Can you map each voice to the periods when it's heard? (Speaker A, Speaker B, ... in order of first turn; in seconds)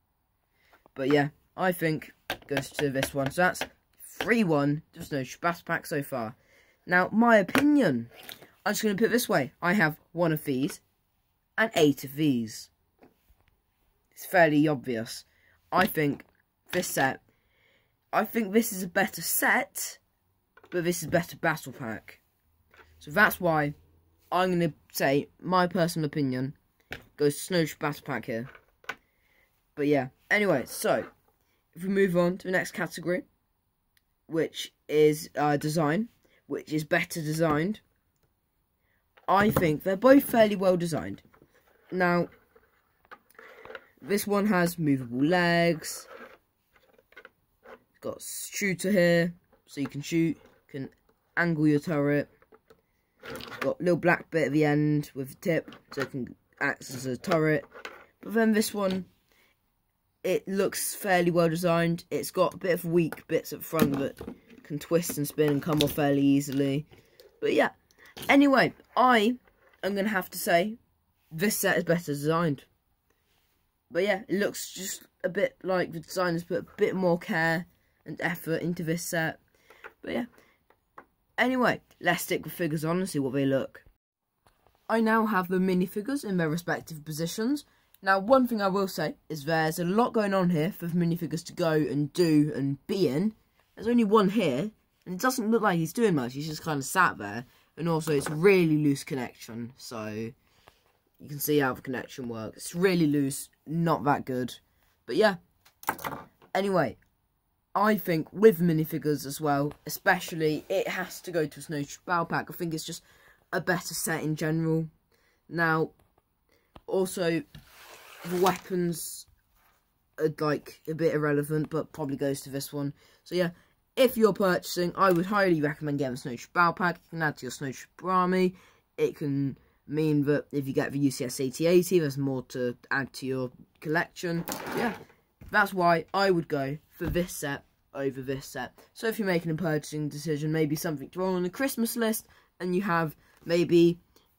Speaker A: 0.9-8.1, 8.6-10.8, 11.6-12.7, 14.1-17.2, 18.1-20.0, 20.7-22.2, 23.0-23.7, 24.3-26.5, 27.2-28.5, 29.8-31.1, 31.7-33.2, 34.3-37.8, 39.3-41.2, 41.9-42.3, 44.0-46.1, 48.0-52.3, 53.6-57.7, 58.2-59.1, 60.2-66.9, 67.4-67.7, 68.2-70.8, 71.3-72.7, 73.9-79.4, 80.0-80.3, 81.4-83.8, 84.9-100.3, 101.2-105.4, 106.5-107.0, 107.7-114.9, 115.5-115.9, 116.9-117.4, 118.2-119.3, 120.2-135.0, 135.5-144.0